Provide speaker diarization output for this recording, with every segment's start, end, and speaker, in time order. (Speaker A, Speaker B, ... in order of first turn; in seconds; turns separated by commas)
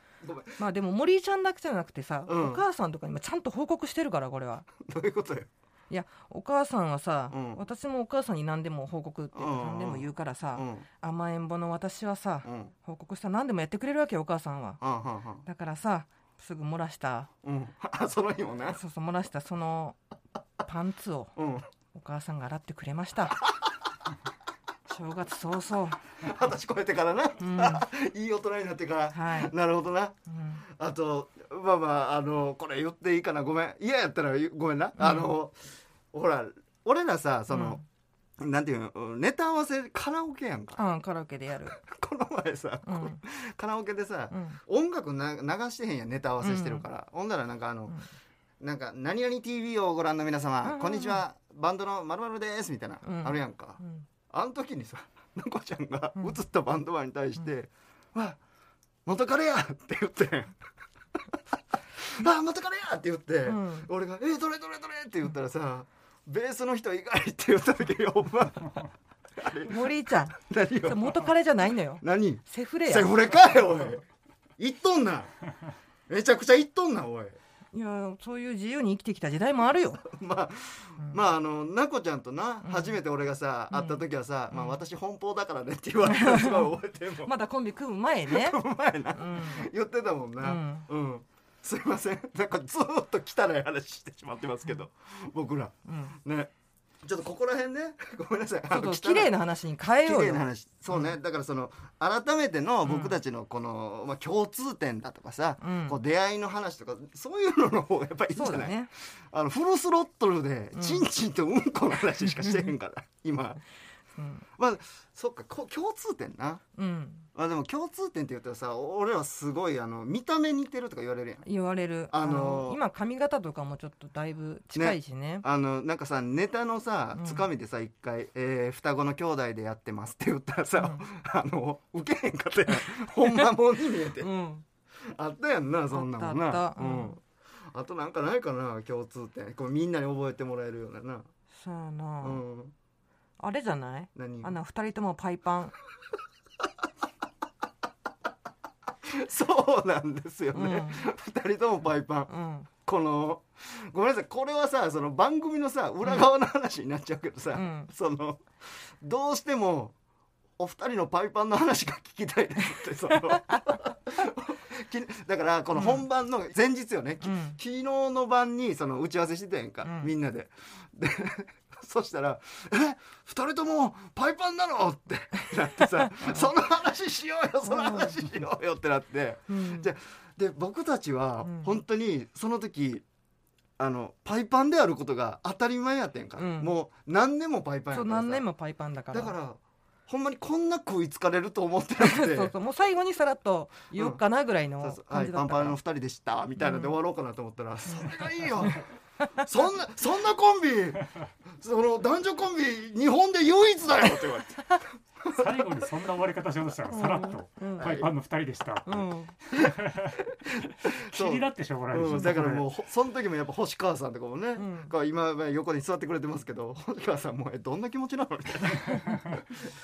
Speaker A: 0.2-0.6, Speaker B: 0.6-4.7, Speaker A: 2.3-2.6, Speaker A: 4.8-5.5, Speaker B: 5.9-14.8, Speaker A: 7.3-7.6, Speaker A: 9.3-10.9, Speaker A: 12.4-12.7, Speaker A: 14.8-15.4, Speaker B: 15.4-17.3, Speaker A: 17.4-18.8, Speaker B: 18.7-20.0, Speaker B: 20.6-21.3, Speaker A: 21.4-21.7, Speaker B: 21.9-23.4, Speaker B: 24.9-26.0, Speaker A: 26.2-30.2, Speaker B: 27.4-27.9, Speaker B: 29.1-29.5, Speaker B: 30.3-30.6, Speaker A: 30.7-37.8, Speaker B: 35.0-35.3, Speaker B: 37.5-37.8, Speaker A: 38.4-40.8, Speaker B: 40.8-41.8, Speaker A: 41.7-48.0, Speaker B: 42.9-43.2, Speaker B: 44.3-44.6, Speaker B: 46.4-46.9, Speaker A: 48.6-58.4, Speaker B: 50.6-51.2, Speaker B: 53.0-54.1, Speaker A: 59.0-60.5, Speaker A: 62.0-68.8, Speaker B: 63.5-63.9, Speaker A: 69.4-71.3, Speaker B: 69.6-73.2, Speaker A: 72.0-74.0, Speaker A: 74.6-75.3, Speaker A: 76.1-77.4, Speaker B: 77.7-80.0, Speaker A: 80.0-87.3, Speaker B: 82.6-83.0, Speaker B: 83.7-84.8, Speaker B: 86.0-86.7, Speaker B: 87.2-88.6, Speaker A: 88.3-96.5, Speaker B: 89.1-89.7, Speaker B: 90.4-90.9, Speaker B: 95.9-96.2, Speaker A: 97.0-99.3, Speaker B: 98.7-101.2, Speaker A: 100.0-113.6, Speaker B: 102.8-103.2, Speaker B: 105.6-106.0, Speaker B: 108.3-108.9, Speaker B: 110.8-111.0, Speaker B: 114.2-114.5, Speaker A: 114.6-116.6, Speaker B: 116.8-117.3, Speaker A: 117.3-121.5, Speaker B: 121.5-125.5, Speaker A: 122.1-122.8, Speaker A: 124.7-134.3, Speaker B: 127.2-127.5, Speaker B: 130.8-131.0, Speaker B: 134.2-134.7, Speaker A: 135.0-141.3, Speaker B: 135.9-137.2, Speaker B: 141.5-142.4, Speaker A: 142.2-142.7, Speaker B: 143.4-145.8, Speaker A: 144.2-144.5, Speaker A: 149.0-152.3, Speaker B: 150.5-151.1, Speaker B: 152.3-152.7, Speaker A: 152.8-159.9, Speaker B: 157.5-157.9, Speaker A: 160.6-183.0, Speaker B: 163.2-163.6, Speaker B: 165.8-166.1, Speaker B: 167.2-167.6, Speaker B: 169.8-170.1, Speaker B: 176.1-176.5, Speaker B: 177.7-178.2, Speaker B: 179.5-179.9, Speaker B: 181.4-181.8, Speaker A: 183.8-188.5, Speaker B: 186.4-186.7, Speaker B: 187.9-189.3, Speaker A: 189.1-192.5, Speaker B: 192.0-195.8, Speaker A: 193.9-194.2, Speaker A: 194.8-198.8, Speaker B: 196.6-196.9, Speaker A: 199.4-201.1, Speaker A: 201.6-205.7, Speaker C: 205.3-210.2, Speaker B: 206.9-208.0, Speaker A: 207.8-208.1, Speaker B: 208.9-209.3, Speaker A: 210.5-219.4, Speaker C: 210.7-212.7, Speaker B: 212.1-212.3, Speaker B: 214.6-214.9, Speaker C: 219.1-219.4